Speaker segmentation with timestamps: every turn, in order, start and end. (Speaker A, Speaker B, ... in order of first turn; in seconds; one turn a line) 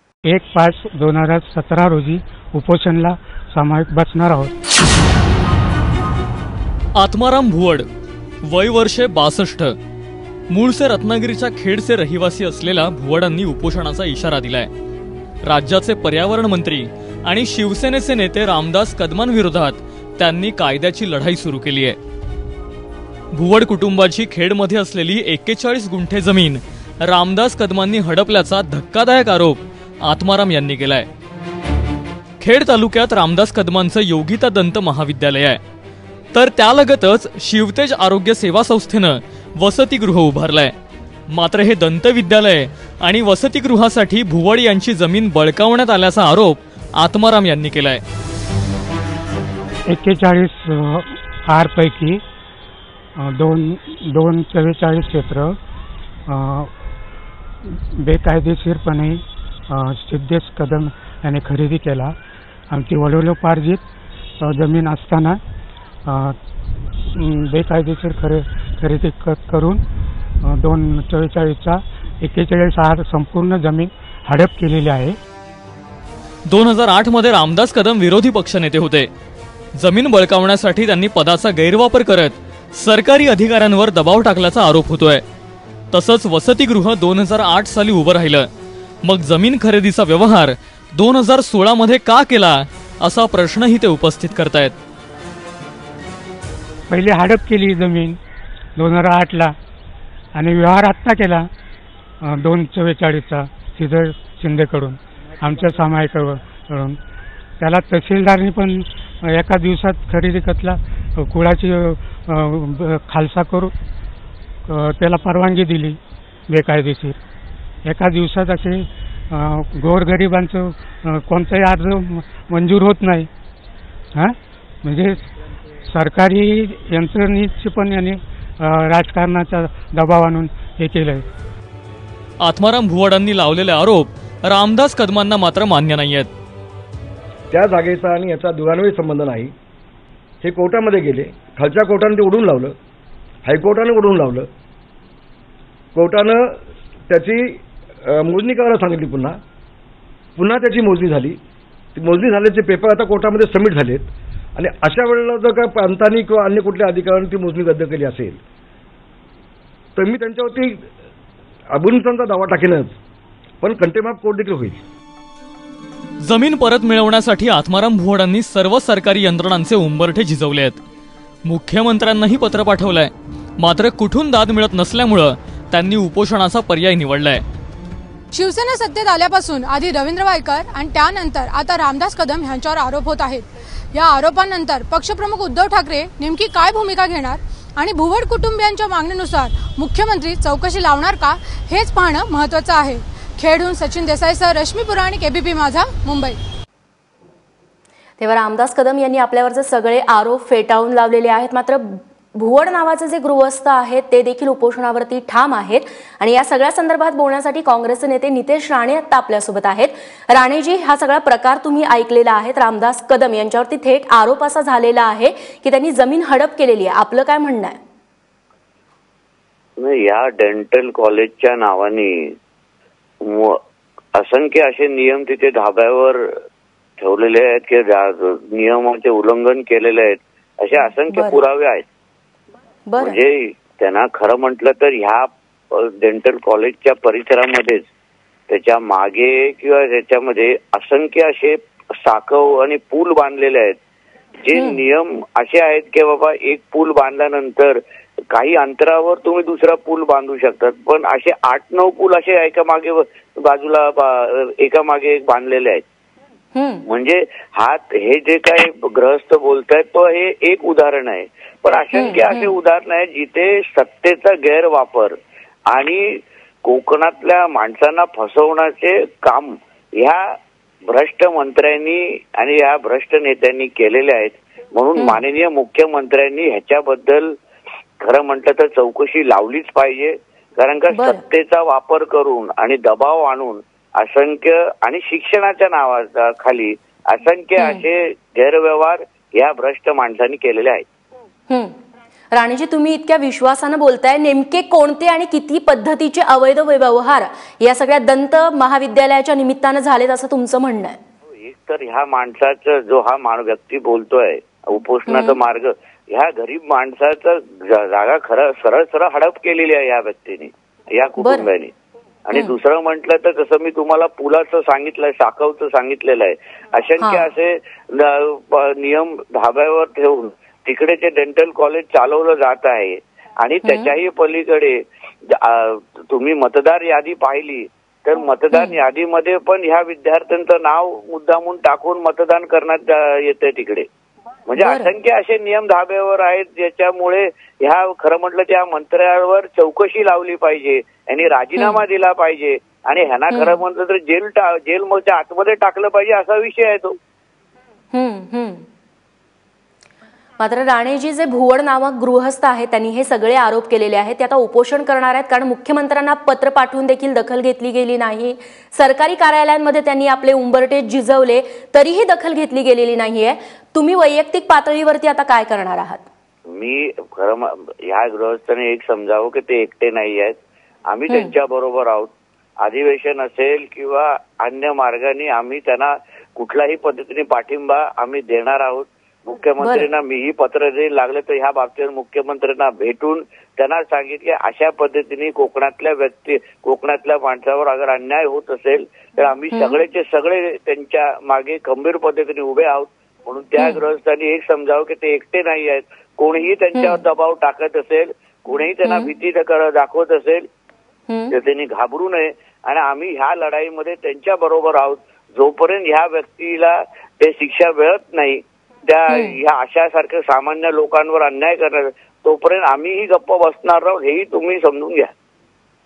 Speaker A: 0.2-4.5
Speaker B: 7.0-7.8
Speaker B: 8.4-9.7
Speaker B: 10.5-14.7
Speaker B: 15.4-22.0
Speaker B: 23.3-31.1
Speaker B: 32.4-35.6
Speaker B: 36.3-40.7
Speaker B: 41.3-48.0
Speaker A: 49.9-52.2
Speaker A: 53.2-55.6
Speaker A: 56.3-56.7
Speaker A: 57.7-62.1
Speaker A: 62.7-63.8
Speaker A: 64.4-65.4
Speaker A: 66.0-66.4
Speaker A: 67.1-69.8
Speaker A: 70.4-75.2
Speaker B: 76.5-79.1
Speaker B: 79.7-85.2
Speaker B: 85.9-88.5
Speaker B: 89.0-94.7
Speaker A: 96.9-98.2
Speaker A: 98.8-99.5
Speaker A: 100.3-101.5
Speaker A: 102.2-107.0
Speaker A: 107.6-113.7
Speaker A: 114.7-117.2
Speaker A: 117.8-123.3
Speaker A: 124.2-125.2
Speaker A: 125.9-131.2
Speaker B: 132.4-136.3
Speaker C: 137.5-139.5
Speaker C: 140.4-142.7
Speaker C: 143.4-144.5
Speaker C: 145.9-149.4
Speaker C: 150.3-151.4
Speaker C: 151.9-158.4
Speaker C: 159.9-160.8
Speaker C: 161.7-162.9
Speaker C: 163.6-164.8
Speaker B: 166.2-170.8
Speaker B: 171.4-177.4
Speaker D: 178.3-196.4
Speaker E: 198.2-217.8
Speaker F: 219.8-222.3
Speaker F: 223.2-223.6
Speaker F: 224.2-226.2
Speaker F: 227.0-231.8
Speaker E: 231.1-231.4
Speaker E: 232.9-233.2
Speaker F: 233.0-237.8
Speaker F: 238.5-243.8
Speaker F: 244.4-247.8
Speaker E: 244.5-244.8
Speaker F: 248.3-255.8
Speaker E: 256.5-256.8
Speaker F: 256.9-265.1
Speaker E: 261.9-262.5
Speaker F: 265.7-266.0
Speaker F: 266.6-270.2
Speaker F: 270.9-277.3
Speaker F: 278.0-290.8
Speaker E: 280.9-281.2
Speaker E: 287.6-287.8
Speaker E: 291.5-291.8
Speaker E: 292.3-301.0
Speaker F: 301.3-311.7
Speaker E: 305.1-305.4
Speaker E: 311.2-311.5
Speaker F: 312.3-333.9
Speaker E: 317.0-317.3
Speaker E: 323.6-323.9
Speaker F: 334.5-346.9
Speaker E: 334.6-334.9
Speaker E: 341.6-341.8
Speaker E: 343.3-343.6
Speaker E: 347.9-348.6
Speaker E: 350.4-366.0
Speaker F: 366.5-370.4
Speaker F: 370.9-372.1
Speaker F: 372.6-400.5
Speaker E: 379.6-379.9
Speaker E: 393.6-393.8
Speaker E: 396.7-397.0
Speaker E: 398.8-399.1
Speaker E: 401.1-401.3
Speaker F: 401.3-415.1
Speaker E: 409.1-409.4